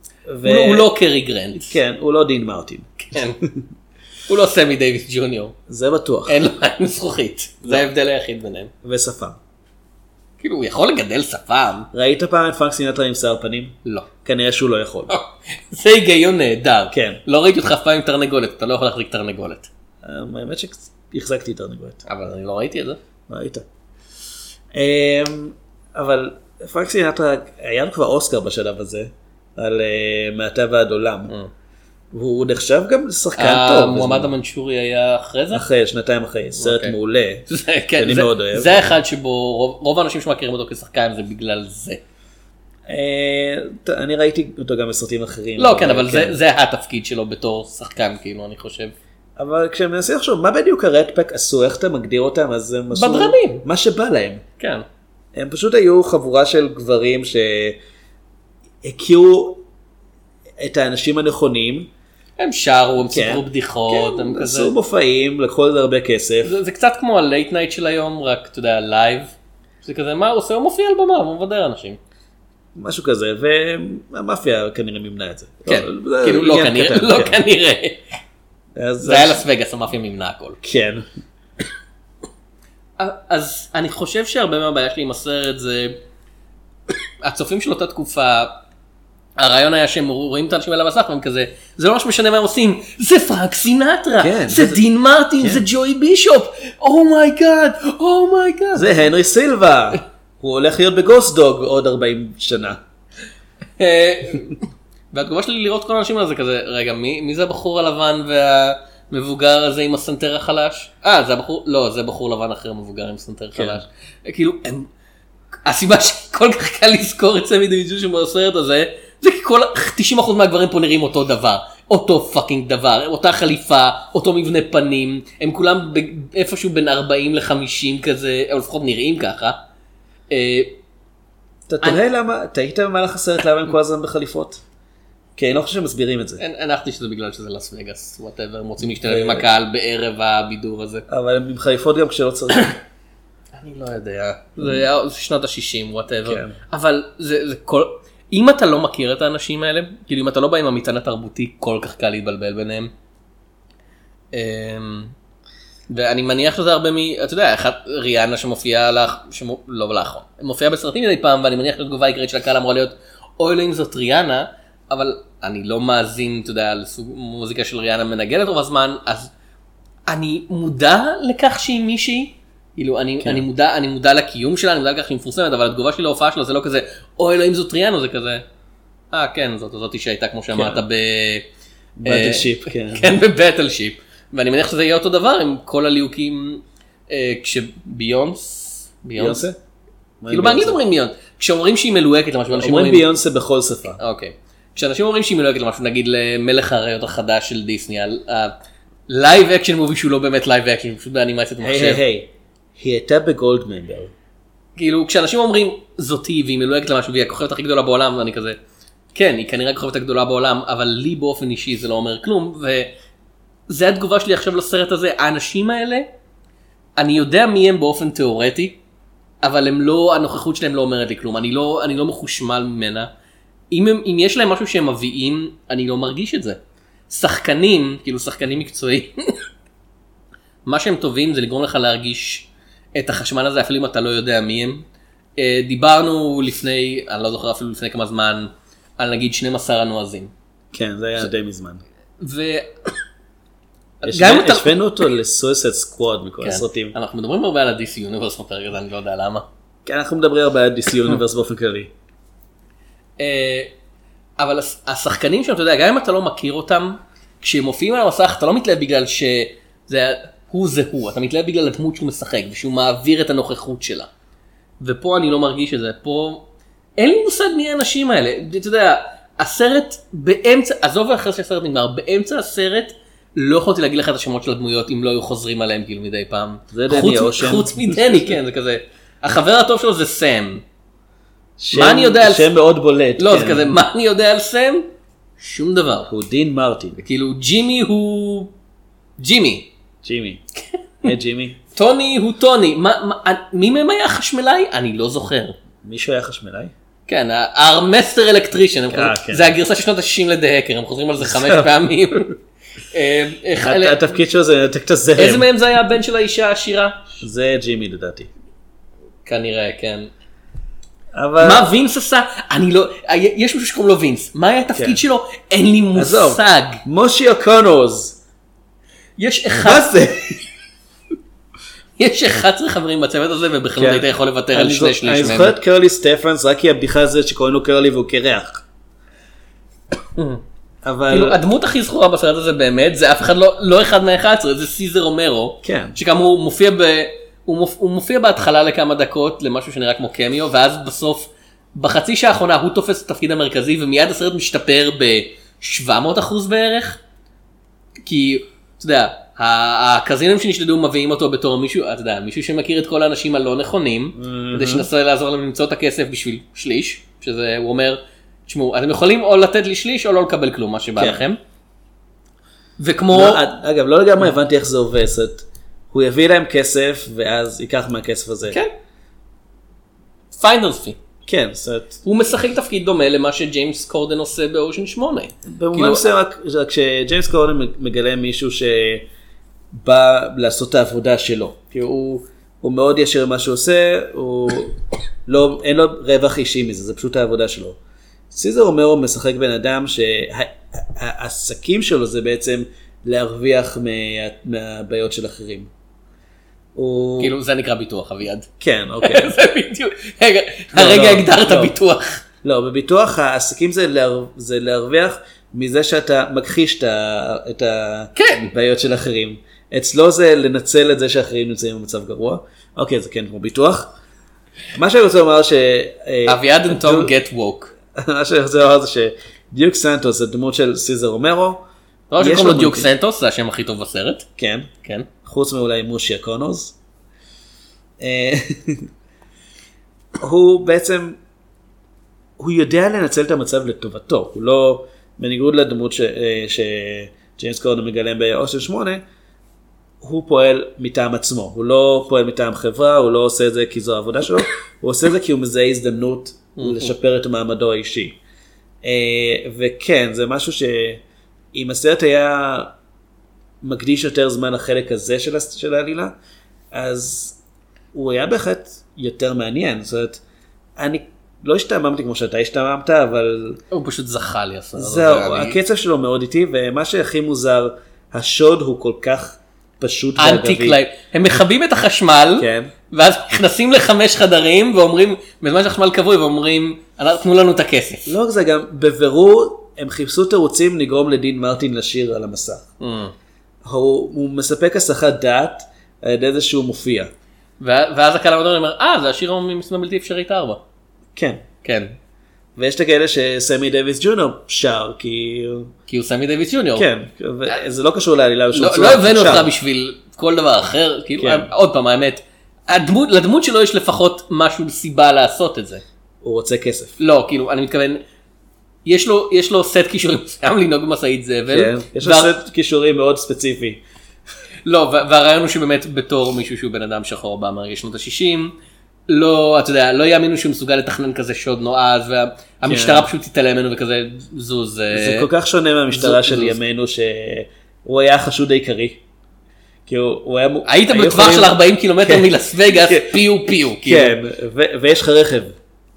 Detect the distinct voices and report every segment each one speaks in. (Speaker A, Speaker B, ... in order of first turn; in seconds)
Speaker A: 0.3-0.9, 1.6-3.6, 5.7-6.4, 7.6-7.9, 8.8-9.4, 11.9-15.1, 16.9-17.2, 20.0-22.0, 23.3-23.6, 24.7-31.3, 32.1-34.3, 35.5-38.9, 42.9-46.4, 49.4-54.4, 55.3-57.8, 58.8-59.6, 60.6-61.9, 63.0-66.6, 72.7-77.4, 78.8-79.4, 80.6-81.1, 94.2-94.8, 95.4-95.6, 98.7-102.8, 113.5-113.8, 131.7-134.6, 135.4-136.4, 139.0-139.5, 141.1-142.8, 144.6-144.8, 146.2-146.6, 173.2-173.4, 180.5-180.8, 182.0-183.2, 189.2-189.6, 190.2-190.8, 192.5-194.0, 201.6-204.1, 240.7-241.8, 244.1-246.9, 249.8-251.9, 276.7-278.2, 281.6-283.7, 286.1-287.0, 290.0-290.4, 291.0-291.6, 295.8-296.7, 298.9-299.6, 301.2-301.7, 303.6-305.5, 307.2-308.3, 311.1-311.7, 314.7-315.0, 315.9-318.2, 319.6-320.4, 323.8-328.6, 330.8-331.4, 335.6-336.0, 354.1-354.9, 361.0-361.2, 363.1-368.6, 371.2-372.0, 375.4-379.1, 379.7-387.8, 388.3-395.7, 396.7-397.3, 398.6-399.3, 400.7-401.7, 402.4-413.9, 414.7-417.1, 417.9-421.6, 422.2-422.9, 424.4-424.7, 425.2-426.7, 428.0-428.9, 430.2-431.2, 432.4-439.0, 440.0-448.2, 448.8-451.0, 451.5-452.7, 453.6-456.1, 456.7-457.4, 457.9-460.2, 460.8-463.6, 464.8-470.8, 472.4-472.7, 478.1-482.6, 483.6-487.1, 491.1-491.4, 492.6-495.7, 496.7-499.5, 501.2-501.5, 506.2-507.0, 511.5-513.8, 522.6-523.1, 524.9-529.0, 529.9-535.6
Speaker B: 0.4-1.8, 3.0-3.4, 4.3-5.5, 6.2-8.7, 10.4-11.9, 15.1-19.7, 22.1-23.0, 33.4-35.6, 36.6-36.9, 37.5-42.0, 45.6-48.9, 52.9-53.6, 54.6-54.8, 62.4-64.7, 66.4-72.0, 75.7-78.0, 79.0-80.6, 83.0-86.0, 87.2-88.6, 89.4-99.0, 103.8-114.9, 115.7-129.6, 130.3-130.8, 136.4-141.1, 143.5-152.9, 154.3-155.1, 155.9-169.3, 170.1-178.4, 179.1-181.4, 182.1-189.4, 190.3-193.1, 194.0-198.5, 199.1-202.0, 204.8-208.6, 209.1-212.9, 213.7-216.1, 217.0-218.8, 219.4-223.1, 223.7-226.6, 227.1-229.4, 230.7-234.8, 235.4-240.3, 242.2-242.9, 244.0-244.7, 246.4-249.4, 253.2-253.7, 254.4-264.1, 264.8-266.4, 267.0-280.6, 281.7-282.5, 283.2-286.1, 287.0-288.5, 289.2-289.7, 291.7-295.6, 297.1-302.4, 302.9-304.0, 305.2-307.2, 309.2-310.1, 311.4-316.8, 319.2-319.9, 322.0-325.6, 330.1-330.4, 331.1-347.0, 348.1-361.4, 362.8-363.4, 370.3-371.0, 372.0-376.1, 397.2-398.5, 399.0-402.2, 408.1-408.5, 416.3-417.7, 422.1-424.2, 424.8-425.1, 446.6-446.9, 463.7-465.6, 470.2-478.1, 482.8-483.1, 487.6-490.6, 491.6-491.9, 495.9-496.9, 498.5-505.8, 507.0-508.0, 508.8-512.3, 514.6-518.5, 519.1-525.3, 525.9-526.6, 530.6-534.1